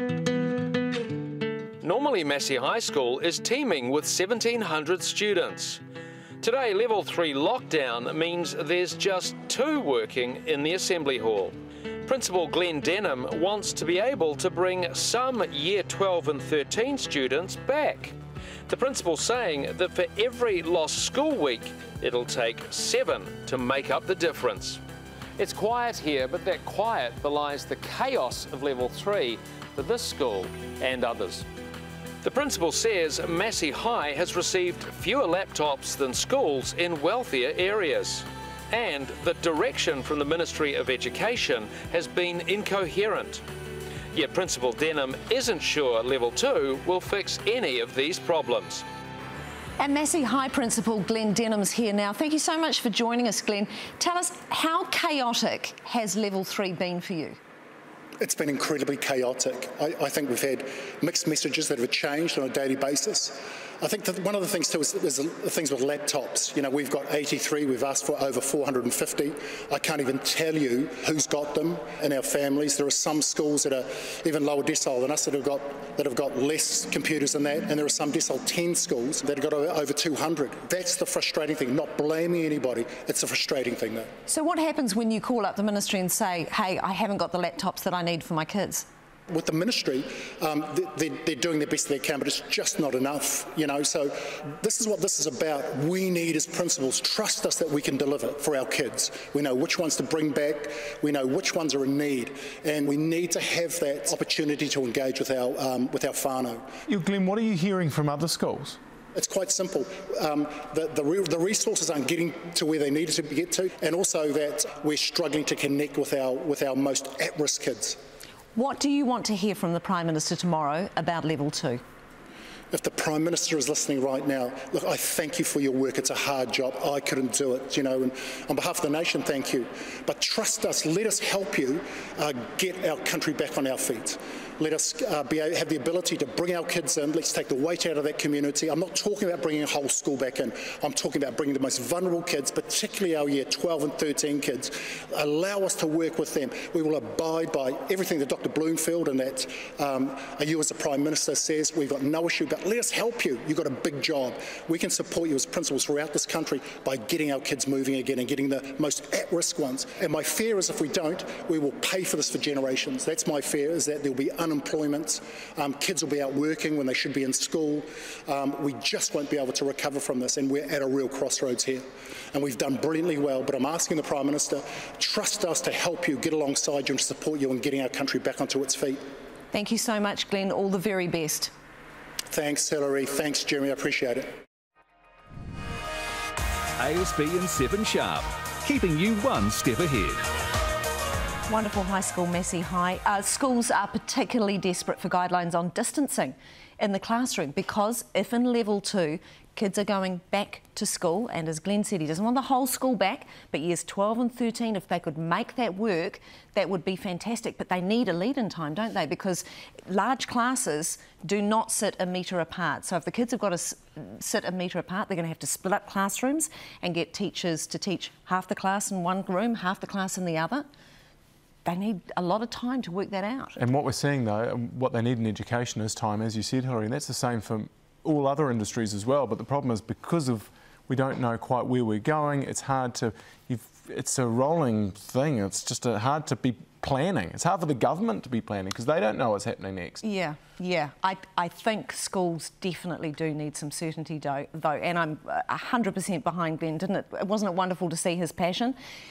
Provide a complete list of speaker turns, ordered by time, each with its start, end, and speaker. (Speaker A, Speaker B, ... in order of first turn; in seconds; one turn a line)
Speaker A: 1.8-5.8
Speaker A: 6.4-18.1
Speaker A: 18.7-24.8
Speaker A: 25.4-31.5
Speaker A: 32.2-43.4
Speaker A: 44.1-48.9
Speaker B: 49.8-57.4
Speaker C: 58.2-84.1
Speaker B: 84.3-88.9
Speaker C: 89.3-106.7
Speaker D: 106.9-108.8
Speaker C: 109.2-118.0
Speaker B: 118.5-121.8
Speaker C: 122.7-179.0
Speaker B: 179.5-181.5
Speaker C: 182.3-184.3
Speaker E: 186.8-190.2
Speaker B: 191.5-220.7
Speaker B: 221.7-223.6
Speaker D: 223.6-240.0
Speaker B: 240.0-248.8